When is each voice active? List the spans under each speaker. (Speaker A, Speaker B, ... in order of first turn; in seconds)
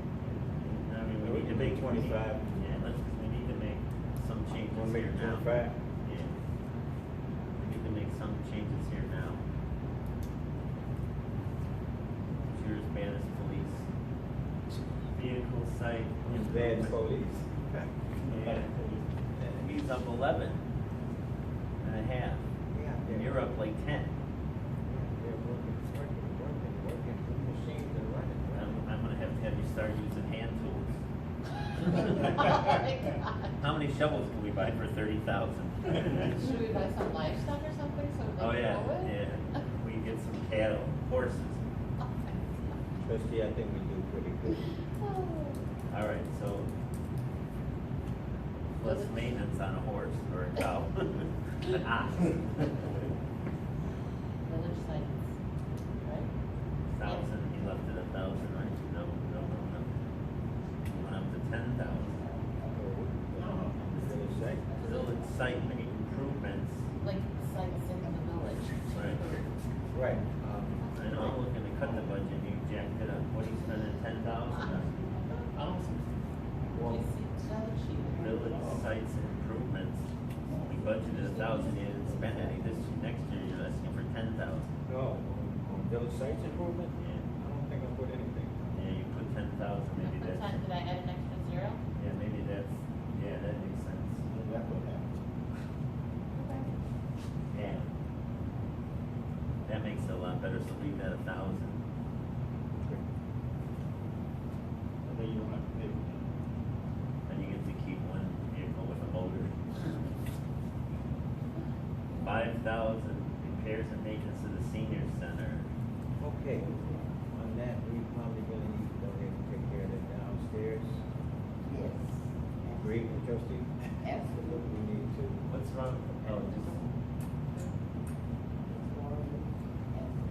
Speaker A: 0.3-5.5, 6.0-6.4, 7.6-9.4, 12.5-13.9, 15.1-17.0, 18.3-18.7, 19.4-20.6, 21.8-22.5, 23.1-24.1, 28.5-31.0, 31.9-32.6, 33.6-36.5, 38.4-41.6, 45.9-46.7, 48.8-53.0, 56.9-59.9, 60.9-62.2, 64.8-66.9, 68.9-69.2, 70.9-76.0, 78.1-84.7, 87.0-87.3, 88.7-90.6, 92.0-94.2, 97.5-97.9, 99.7-101.8, 107.3-110.1, 112.1-115.7, 125.5-126.8
Speaker B: 1.2-2.5, 4.7-5.8, 16.2-17.6, 22.7-23.4, 24.9-28.8, 43.0-44.7, 62.7-64.7, 69.9-70.9, 76.7-77.1, 84.9-88.6, 116.2-121.0, 122.7-125.4, 126.2-126.8
Speaker C: 18.2-19.1, 63.4-63.7, 94.3-95.0, 105.0-106.2
Speaker D: 31.9-33.5, 36.2-39.1, 45.0-45.6, 48.8-49.1, 54.5-55.3, 56.0-56.3, 67.0-69.5, 76.8-78.5, 90.0-91.8, 96.4-96.7